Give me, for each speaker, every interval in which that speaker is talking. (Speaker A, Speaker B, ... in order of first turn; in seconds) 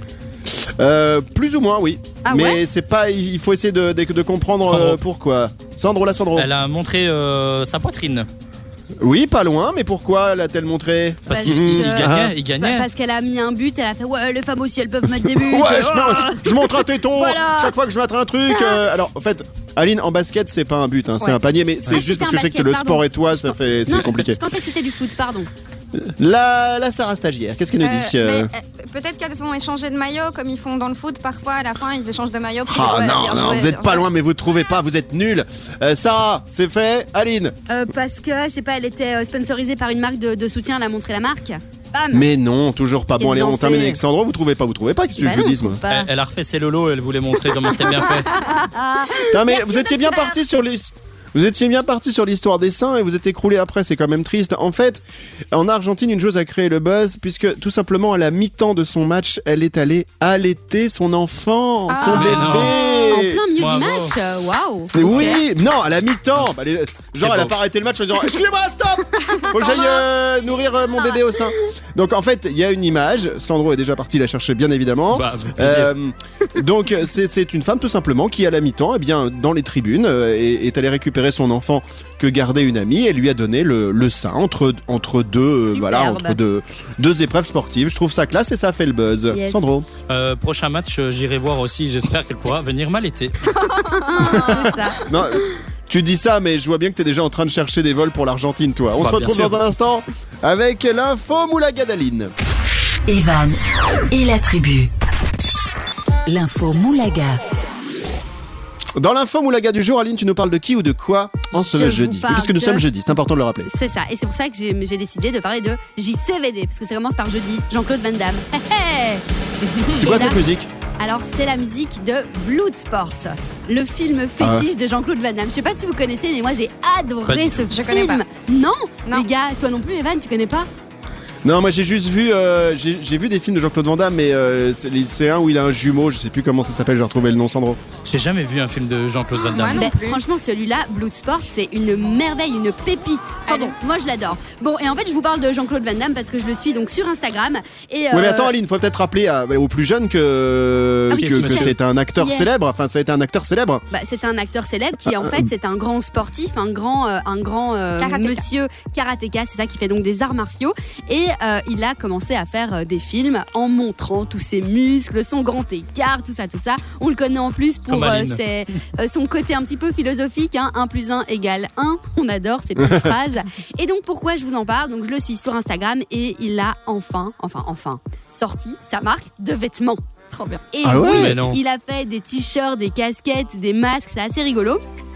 Speaker A: 0.5-6.5, 9.0-12.3, 15.3-24.4, 25.9-28.5, 32.7-37.5, 42.1-45.8, 49.3-63.4, 64.9-89.9, 94.3-102.3, 109.0-113.7, 120.0-120.7, 124.4-124.7, 131.4-137.8, 148.1-153.8, 155.1-155.5, 172.8-173.1, 180.8-181.4
Speaker B: 2.2-2.6, 11.3-17.7, 18.5-18.8, 21.9-25.5, 37.7-42.2, 43.2-44.0, 45.2-46.1, 47.7-50.4, 61.9-65.4, 69.2-70.0, 85.6-86.4, 89.3-89.6, 93.6-95.0, 111.5-112.8, 113.6-119.2, 119.8-120.4, 121.0-130.7, 139.7-148.5, 151.1-152.5, 153.9-180.0, 180.7-184.8
Speaker C: 4.6-5.0, 6.3-8.3, 11.3-12.9, 45.9-48.3, 62.1-62.8, 63.5-64.1, 65.0-65.3, 67.2-67.5, 75.1-75.9, 90.1-93.5, 99.0-99.6, 127.3-127.7, 138.0-139.9, 151.2-151.7, 167.9-168.4, 181.1-181.6
Speaker D: 27.8-34.0, 61.9-62.5, 93.7-95.0, 127.7-128.2, 139.4-140.2, 143.5-143.8, 158.0-158.4, 180.3-180.6
Speaker E: 103.1-104.9, 106.2-107.4